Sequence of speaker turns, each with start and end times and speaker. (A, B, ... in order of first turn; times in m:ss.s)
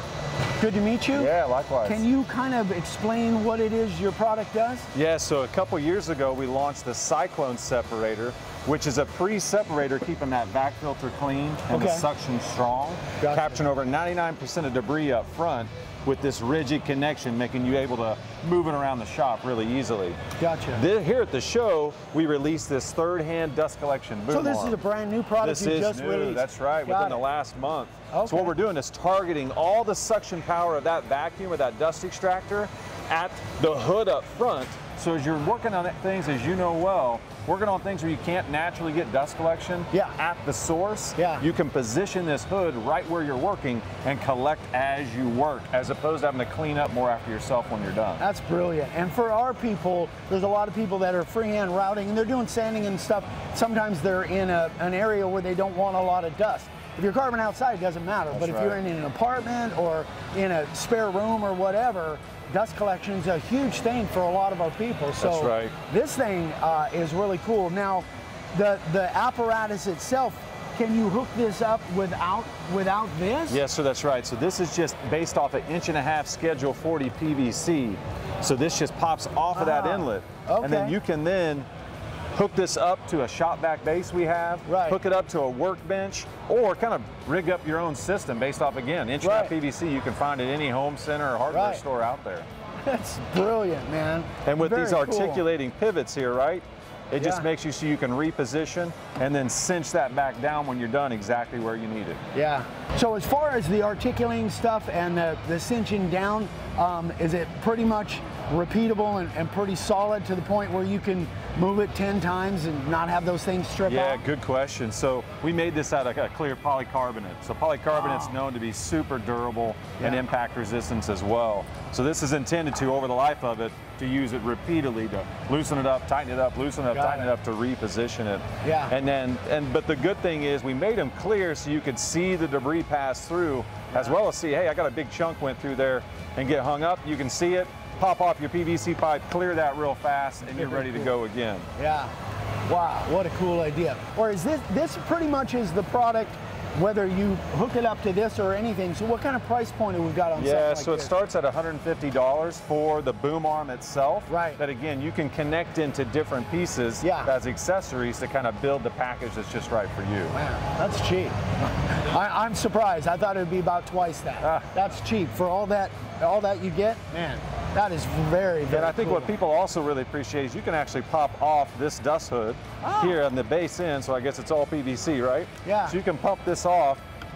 0:00.6-0:04.9 A
0:01.1-0:02.0 B
0:04.9-0:20.2 B
0:11.7-0:12.1 A
0:13.2-0:13.6 A
0:20.4-0:20.8 A
0:20.7-0:24.8 B
0:24.3-0:27.2 A
0:25.4-0:48.2 B
0:28.1-0:28.6 A
0:39.9-0:40.2 A
0:41.2-0:41.4 A
0:48.2-1:13.6 A
0:58.3-0:58.8 B
1:05.2-1:05.7 B
1:13.5-1:21.7 B
1:19.5-1:21.0 A
1:22.3-1:32.5 B
1:24.6-1:25.0 A
1:29.2-1:29.5 A
1:31.5-1:31.8 A
1:32.8-1:35.4 A
1:34.4-1:42.2 B
1:37.2-1:37.5 A
1:42.3-1:54.2 A
1:53.8-2:21.7 B
1:57.9-1:58.4 A
2:06.9-2:07.3 A
2:08.6-2:08.9 A
2:20.5-2:21.1 A
2:21.8-2:22.1 A
2:22.7-2:31.1 A
2:30.4-2:40.4 B
2:34.3-2:34.6 A
2:37.0-2:37.3 A
2:40.3-2:49.3 A
2:44.4-2:44.7 B
2:48.7-2:57.0 B
2:52.8-2:53.2 A
2:55.6-2:56.0 A